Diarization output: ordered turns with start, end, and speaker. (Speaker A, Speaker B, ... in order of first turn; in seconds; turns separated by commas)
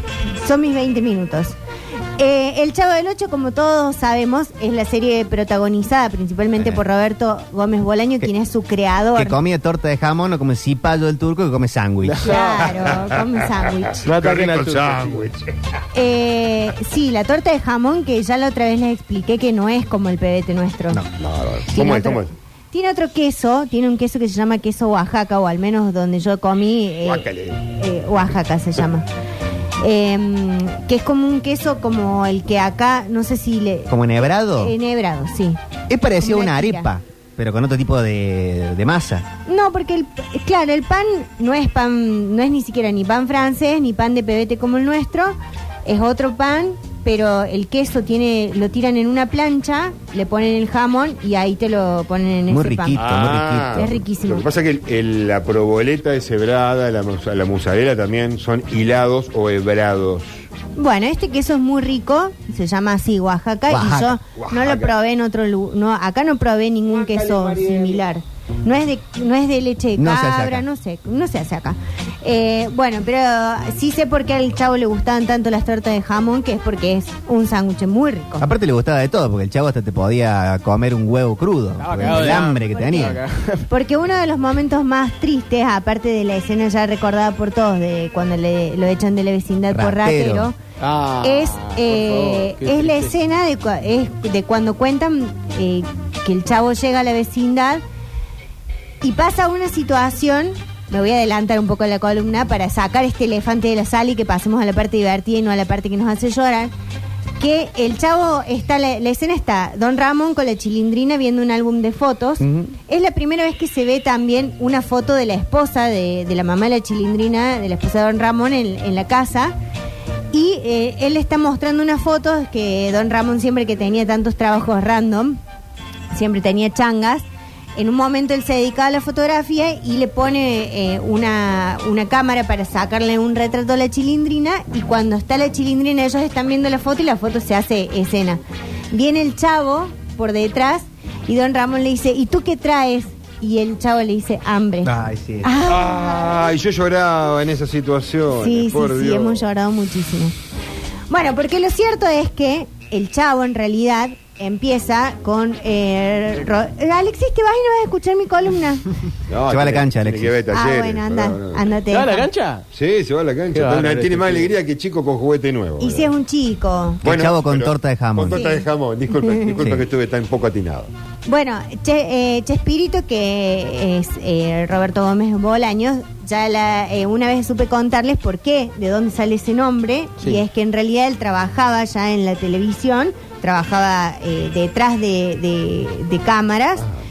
Speaker A: 0.3-1.6, Speaker A: 2.2-9.4, Speaker B: 6.6-6.8, Speaker B: 9.2-12.3, Speaker C: 12.0-12.8, Speaker A: 12.2-14.0, Speaker D: 12.6-13.3, Speaker D: 13.9-15.5, Speaker C: 14.0-15.3, Speaker A: 15.9-21.0, Speaker D: 21.2-22.3, Speaker A: 21.7-29.1, Speaker D: 27.0-27.6, Speaker A: 29.8-35.6, Speaker B: 33.9-34.7, Speaker B: 35.9-39.3, Speaker A: 36.2-36.9, Speaker A: 39.5-53.1, Speaker B: 52.5-54.0, Speaker D: 53.0-60.4, Speaker A: 53.7-54.5, Speaker A: 60.8-78.5, Speaker B: 63.7-64.2, Speaker D: 64.4-64.9, Speaker D: 66.9-68.0, Speaker B: 70.0-70.7, Speaker B: 78.4-83.2, Speaker C: 81.8-83.7, Speaker A: 82.0-83.1, Speaker A: 83.7-90.6, Speaker B: 89.7-90.5, Speaker C: 90.8-93.2, Speaker A: 91.2-97.8, Speaker A: 99.0-106.7, Speaker A: 107.4-119.5, Speaker B: 112.4-112.7, Speaker A: 120.3-125.4, Speaker A: 126.1-146.1, Speaker B: 144.8-145.5, Speaker D: 145.6-149.4, Speaker A: 148.4-150.3, Speaker A: 151.1-158.8, Speaker D: 159.3-161.6, Speaker B: 159.5-160.4, Speaker A: 160.5-162.3, Speaker C: 161.9-162.7, Speaker D: 162.7-166.1, Speaker C: 163.5-164.6, Speaker A: 165.8-167.0, Speaker D: 167.0-170.9, Speaker B: 167.0-168.5, Speaker A: 168.3-168.7, Speaker A: 169.2-169.5, Speaker B: 169.6-169.8, Speaker A: 171.3-186.9